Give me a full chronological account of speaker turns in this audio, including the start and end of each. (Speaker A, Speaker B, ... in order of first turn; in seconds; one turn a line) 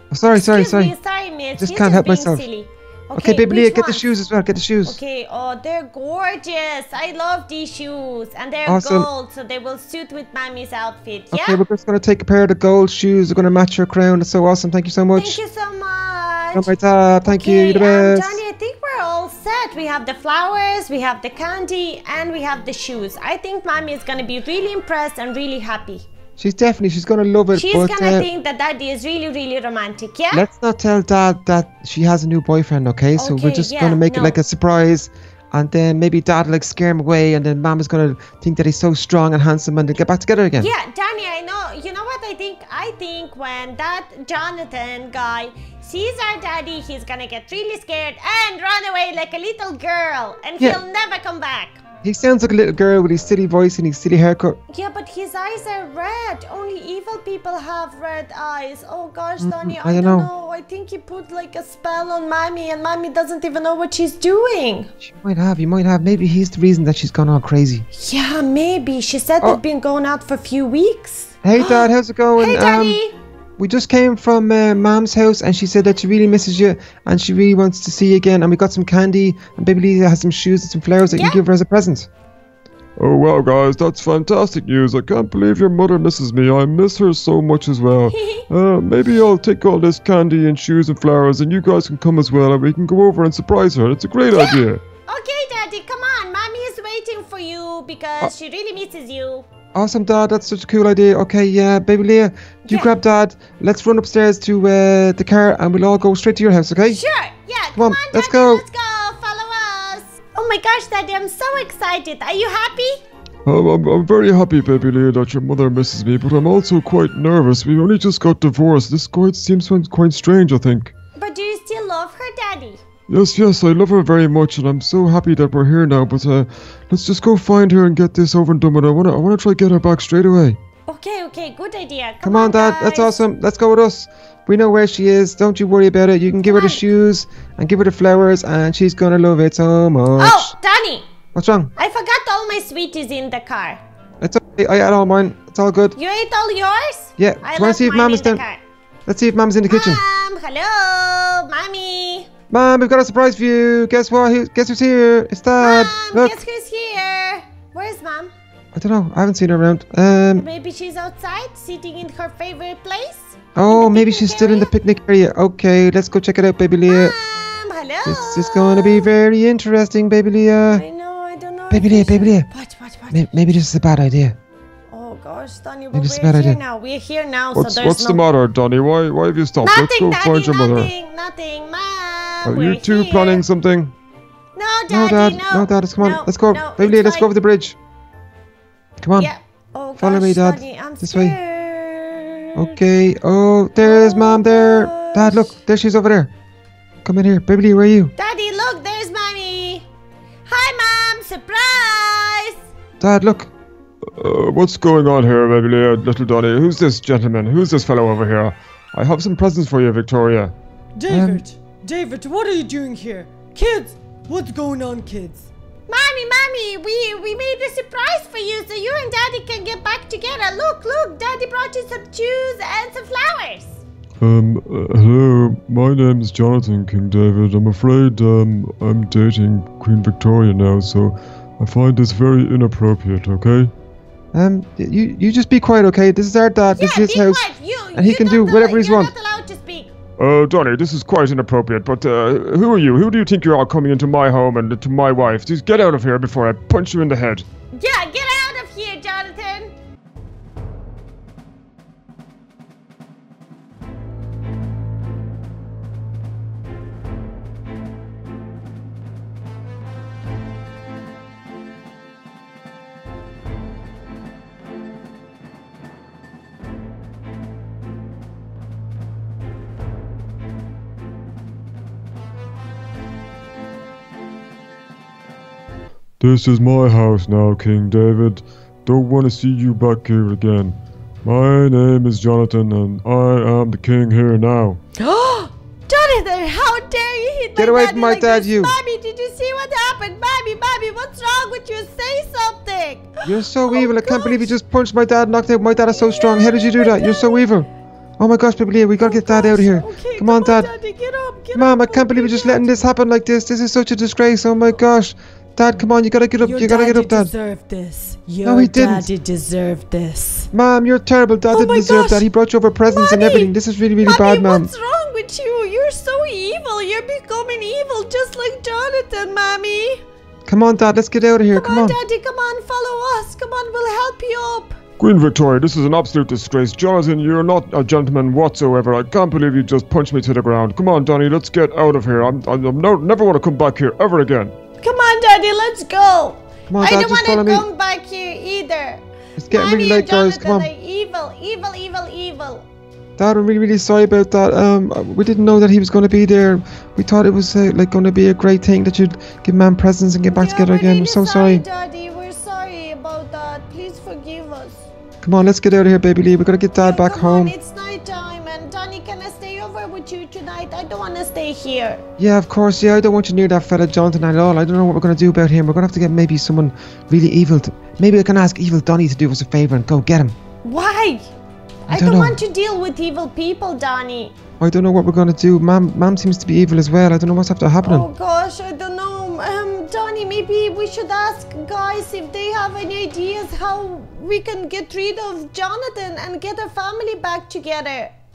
Speaker A: 0.1-0.9
Speaker B: 0.3-4.1
Speaker A: 1.6-2.4
Speaker A: 3.1-5.0
Speaker B: 4.8-11.6
Speaker A: 8.7-9.1
Speaker A: 11.3-15.4
Speaker B: 15.2-16.7
Speaker A: 16.5-18.4
Speaker B: 17.3-26.1
Speaker A: 26.4-28.3
Speaker B: 27.5-30.4
Speaker A: 30.3-40.7
Speaker B: 33.1-34.4
Speaker B: 40.6-51.8
Speaker A: 52.0-54.6
Speaker B: 54.7-64.9
Speaker A: 59.4-60.3
Speaker A: 65.0-67.8
Speaker B: 67.9-73.2
Speaker A: 71.4-73.0
Speaker A: 73.6-82.1
Speaker B: 81.0-81.4
Speaker C: 83.0-94.8
Speaker B: 88.1-88.5
Speaker B: 94.3-99.5
Speaker A: 99.7-107.0
Speaker B: 102.7-102.9
Speaker B: 106.8-113.0
Speaker A: 107.8-108.6
Speaker C: 113.5-120.9
Speaker B: 121.2-122.8
Speaker C: 123.1-124.6
Speaker A: 124.4-130.6
Speaker C: 128.6-128.9
Speaker B: 130.9-133.2
Speaker A: 132.2-140.5
Speaker B: 136.4-136.8
Speaker B: 140.2-141.1
Speaker A: 141.3-141.7
Speaker B: 141.8-143.8
Speaker A: 144.2-145.9
Speaker B: 145.9-148.6
Speaker A: 147.2-148.4
Speaker A: 149.1-150.0
Speaker B: 149.7-152.3
Speaker A: 152.5-156.4
Speaker B: 155.6-158.3
Speaker A: 158.7-160.4
Speaker B: 160.3-164.7
Speaker A: 163.6-167.2
Speaker B: 166.8-169.1
Speaker A: 168.0-170.8
Speaker B: 170.7-173.4
Speaker A: 171.7-172.5
Speaker A: 173.1-174.4
Speaker B: 174.9-178.2
Speaker A: 175.9-176.6
Speaker C: 177.5-180.9
Speaker B: 179.6-183.4
Speaker C: 182.4-183.9
Speaker B: 184.5-187.3
Speaker A: 184.9-187.8
Speaker A: 189.0-189.3
Speaker B: 189.1-192.7
Speaker A: 190.0-191.4
Speaker A: 192.6-196.3
Speaker B: 193.8-195.5
Speaker A: 197.0-198.1
Speaker B: 198.2-199.9
Speaker B: 200.5-202.6
Speaker A: 203.0-203.5
Speaker C: 204.2-210.5
Speaker D: 211.0-215.5
Speaker A: 211.1-211.4
Speaker B: 215.9-223.8
Speaker C: 224.2-233.7
Speaker A: 234.3-239.1
Speaker B: 236.7-239.9
Speaker C: 240.2-247.4
Speaker B: 247.7-249.7
Speaker C: 276.2-284.8
Speaker B: 285.0-294.5
Speaker A: 287.6-288.8
Speaker A: 293.2-300.7
Speaker B: 295.9-297.5
Speaker B: 299.0-302.8
Speaker A: 301.5-307.3
Speaker D: 306.4-310.5
Speaker A: 308.4-309.1
Speaker A: 310.5-314.7
Speaker B: 311.5-312.2
Speaker B: 312.9-320.0
Speaker A: 320.4-322.0
Speaker B: 321.5-324.8
Speaker C: 325.0-334.5
Speaker B: 334.8-342.6
Speaker A: 336.7-337.6
Speaker A: 339.4-340.7
Speaker A: 343.2-351.6
Speaker B: 350.3-354.9
Speaker A: 355.2-357.5
Speaker B: 356.8-362.0
Speaker A: 362.2-370.3
Speaker B: 370.6-371.3
Speaker B: 371.9-374.3
Speaker A: 371.9-372.4
Speaker A: 374.6-378.1
Speaker B: 377.8-388.1